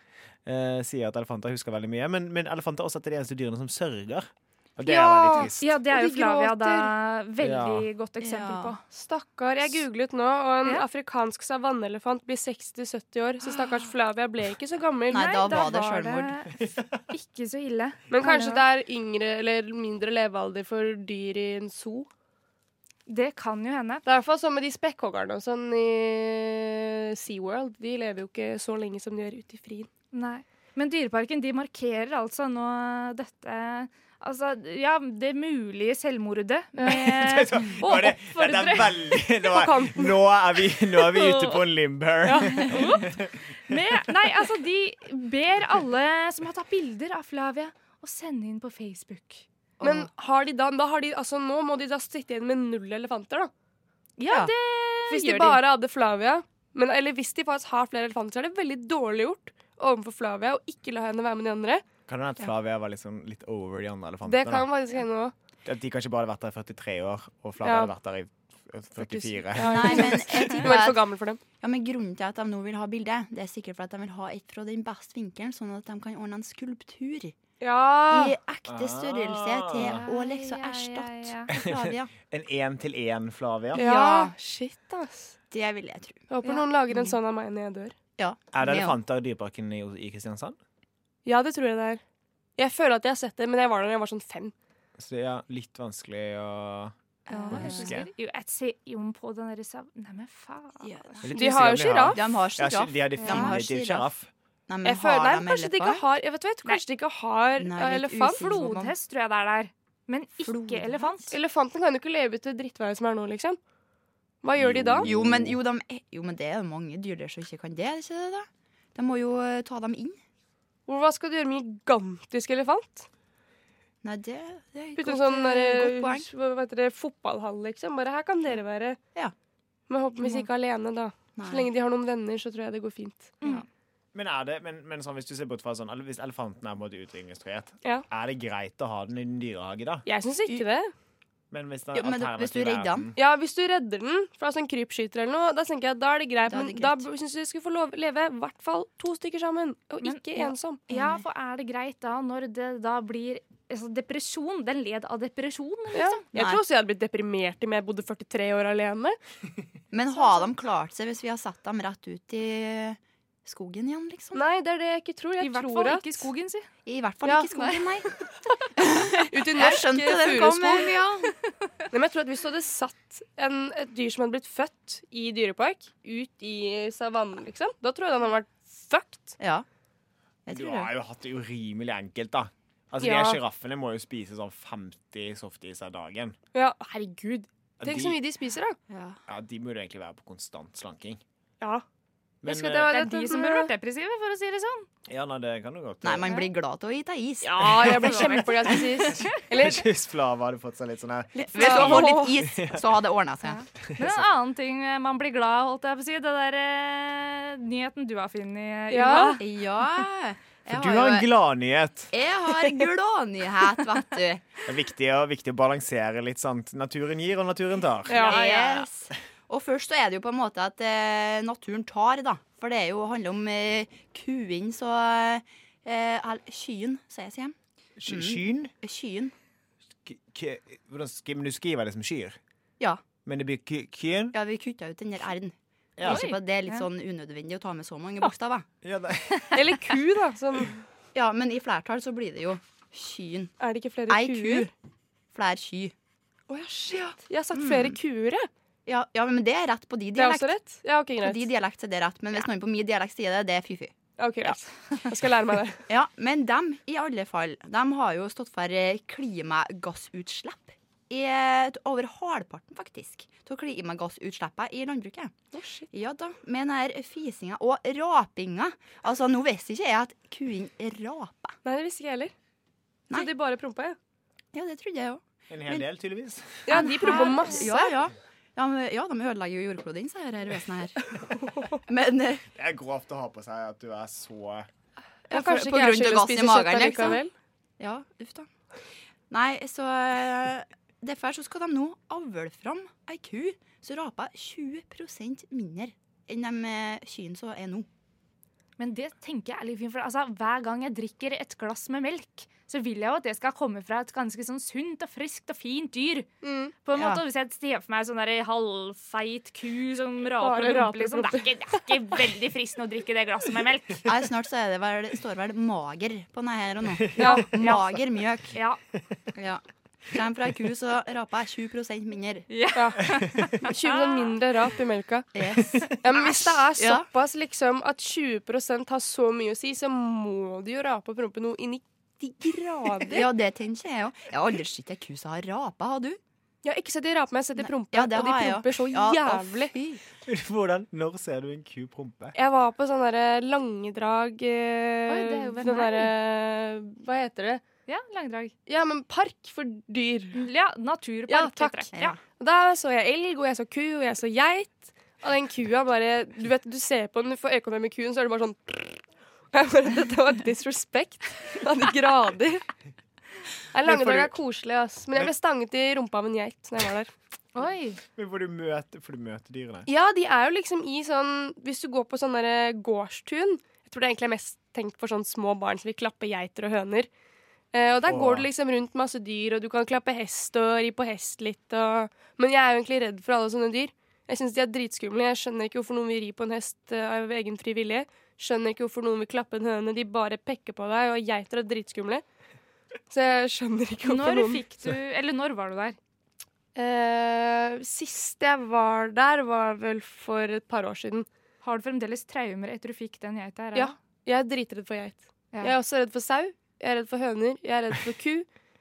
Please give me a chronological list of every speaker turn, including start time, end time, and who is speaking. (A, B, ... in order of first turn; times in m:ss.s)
0:00.4-0:05.8 A
0:04.8-0:06.9 B
0:05.6-0:08.8 C
0:07.4-0:07.9 A
0:08.2-0:08.7 D
0:08.9-0:15.5 B
0:15.1-0:16.3 D
0:15.1-0:16.6 C
0:16.6-0:17.0 A
0:17.1-0:18.6 C
0:18.1-0:22.1 B
0:23.1-0:24.0 C
0:24.0-0:29.9 B
0:30.1-0:39.0 C
0:36.8-0:43.8 A
0:39.5-0:40.2 B
0:41.1-0:41.6 C
0:42.2-0:42.7 B
0:42.7-0:43.1 C
0:43.7-0:49.4 C
0:49.8-0:50.1 D
0:49.8-0:53.5 B
0:54.2-0:55.6 C
0:55.1-1:01.8 B
1:02.1-1:04.7 A
1:04.3-1:05.3 B
1:05.6-1:10.4 A
1:07.6-1:07.9 B
1:09.0-1:11.4 B
1:09.6-1:11.0 D
1:11.6-1:17.3 D
1:17.6-1:18.3 B
1:18.1-1:22.1 D
1:18.7-1:20.0 A
1:19.8-1:21.5 C
1:21.5-1:23.8 A
1:23.7-1:25.4 B
1:23.7-1:24.3 D
1:25.5-1:26.3 D
1:26.3-1:27.9 B
1:28.2-1:28.9 D
1:28.5-1:30.6 A
1:31.2-1:32.0 B
1:32.6-1:34.5 B
1:35.0-1:36.9 A
1:37.3-1:38.0 D
1:37.3-1:40.9 C
1:37.5-1:38.1 A
1:40.8-1:41.3 D
1:41.2-1:44.3 A
1:41.3-1:42.2 B
1:42.1-1:44.1 D
1:43.2-1:43.6 C
1:44.7-1:46.0 D
1:44.8-1:48.4 B
1:47.6-1:48.9 D
1:48.4-1:51.3 C
1:50.4-1:51.4 D
1:51.3-1:53.6 B
1:54.4-1:55.1 B
1:54.6-1:55.5 A
1:55.0-2:00.2 D
2:00.9-2:03.0 B
2:04.0-2:06.2 D
2:05.0-2:09.0 B
2:09.9-2:13.3 B
2:11.4-2:11.7 D
2:14.1-2:20.0 A
2:20.0-2:20.9 B
2:21.5-2:23.2 A
2:21.9-2:23.1 D
2:23.2-2:30.8 B
2:26.5-2:27.0 D
2:30.0-2:36.2 C
2:30.9-2:31.2 D
2:35.9-2:39.2 B
2:36.3-2:36.6 D
2:39.9-2:44.4 D
2:44.3-2:46.3 B
2:45.4-2:46.7 C
2:46.8-2:48.1 D
2:47.2-2:47.5 B
2:47.5-2:47.9 C
2:48.8-2:51.3 D
2:49.3-2:50.9 B
2:51.9-2:59.4 B
2:59.4-2:59.6 D
3:00.4-3:00.9 D
3:00.5-3:06.4 A
3:03.0-3:03.4 B
3:06.5-3:08.8 B
3:07.8-3:08.2 A
3:08.9-3:09.2 D
3:09.3-3:11.2 A
3:12.4-3:12.9 A
3:12.4-3:13.7 B
3:12.9-3:14.9 C
3:15.1-3:16.3 A
3:16.0-3:17.5 D
3:17.4-3:19.8 B
3:17.6-3:22.9 A
3:21.3-3:22.3 B
3:21.5-3:23.6 D
3:23.4-3:29.4 C
3:23.8-3:24.3 A
3:28.9-3:29.4 B
3:29.4-3:31.3 D
3:30.7-3:32.1 A
3:32.1-3:34.5 D
3:34.6-3:38.6 A
3:38.1-3:38.4 B
3:38.1-3:47.6 D
3:48.0-3:48.7 A
3:48.1-3:49.3 D
3:50.0-3:52.4 A
3:53.2-3:54.3 A
3:54.3-3:58.6 D
3:56.0-3:56.3 A
3:56.0-3:56.8 C
3:58.8-3:59.6 A
3:59.5-4:00.8 B
4:01.1-4:03.6 D
4:03.6-4:04.7 B
4:04.1-4:04.7 D
4:05.3-4:05.9 D
4:06.5-4:08.5 B
4:07.5-4:08.0 D
4:08.8-4:10.5 D
4:10.1-4:11.5 B
4:11.2-4:13.9 D
4:14.2-4:15.8 B
4:15.9-4:25.3 D
4:25.5-4:25.9 B
4:25.9-4:31.6 D
4:31.6-4:32.3 B
4:33.1-4:34.0 B
4:34.5-4:35.8 D
4:35.5-4:36.7 A
4:36.6-4:37.9 B
4:36.7-4:41.2 D
4:37.0-4:37.3 C
4:41.4-4:41.7 B
4:41.7-4:42.4 D
4:42.5-4:44.7 A
4:45.3-4:47.2 D
4:45.3-4:47.3 B
4:47.8-4:48.5 D
4:49.3-4:57.9 D
4:58.8-5:06.3 C
5:06.4-5:06.7 B
5:06.8-5:14.1 C
5:06.9-5:07.2 D
5:10.4-5:11.8 B
5:14.0-5:18.5 D
5:17.2-5:17.5 B
5:17.2-5:18.8 C
5:19.3-5:22.5 D
5:22.5-5:24.3 C
5:22.7-5:23.0 B
5:23.0-5:23.5 A
5:23.6-5:25.3 B
5:25.3-5:27.0 D
5:26.0-5:33.3 B
5:33.1-5:36.2 D
5:36.6-5:39.7 B
5:37.6-5:40.0 D
5:40.2-5:42.3 A
5:42.3-5:47.6 B
5:45.1-5:46.1 C
5:47.9-5:48.5 C
5:48.6-5:50.4 B
5:50.3-5:52.2 C
5:51.3-5:51.9 B
5:52.4-6:02.6 B
6:03.7-6:07.1 B
6:03.8-6:04.4 A
6:07.5-6:08.0 C
6:08.2-6:09.9 A
6:09.8-6:17.1 B
6:17.7-6:32.2 B
6:18.0-6:18.5 A
6:33.1-6:34.6 B
6:34.0-6:36.0 C
6:36.7-6:41.3 B
6:41.6-6:43.9 C
6:43.7-6:48.5 B